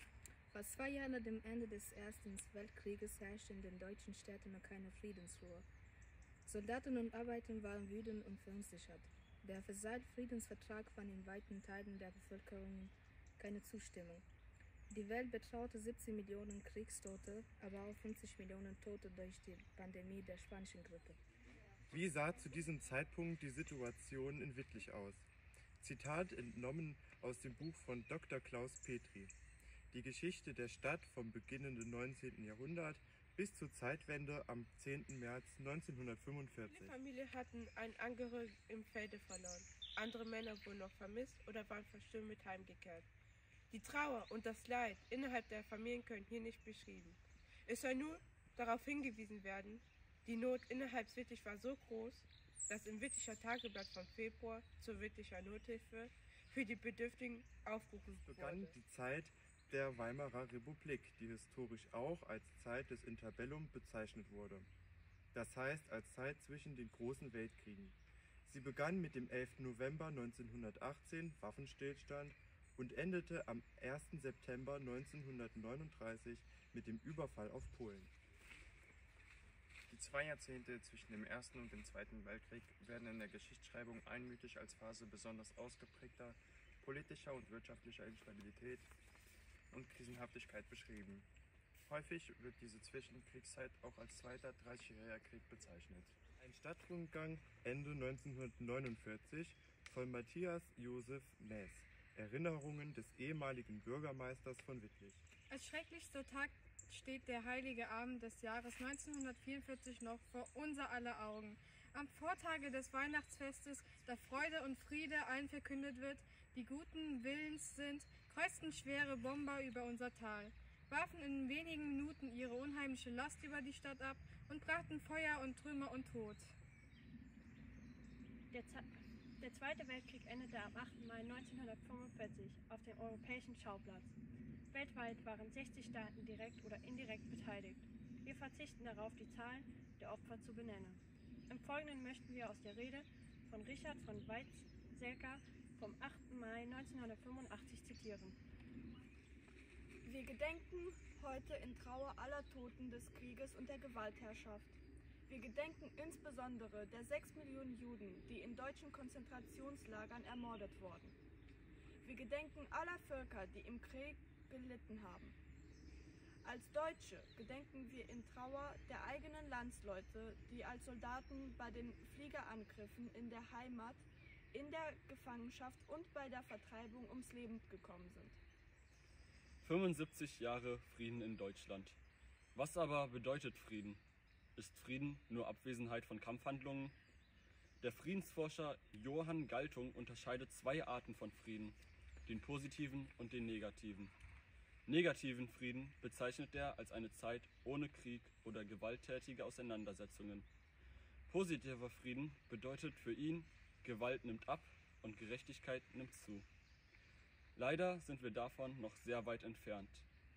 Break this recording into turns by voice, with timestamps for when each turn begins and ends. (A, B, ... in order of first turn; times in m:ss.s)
0:00.5-0:05.6 A
0:06.5-0:14.2 A
0:14.9-0:21.2 A
0:21.9-0:25.3 B
0:25.8-0:29.3 B
0:29.9-0:36.9 B
0:36.6-0:43.1 C
0:43.7-0:58.7 C
0:58.3-1:04.7 B
1:05.3-1:18.1 B
1:19.9-1:28.9 D
1:29.7-1:31.3 D
1:31.8-1:36.2 D
1:36.4-1:45.2 B
1:45.5-2:06.6 E
2:08.5-2:14.1 F
2:14.7-2:28.4 F
2:30.0-2:41.2 G
2:42.0-2:45.4 G
2:46.4-2:58.4 G
2:59.6-3:02.0 H
3:02.5-3:04.0 H
3:04.6-3:07.0 H
3:07.8-3:14.1 H
3:14.8-3:20.5 H
3:21.3-3:26.4 H
3:27.6-3:30.0 H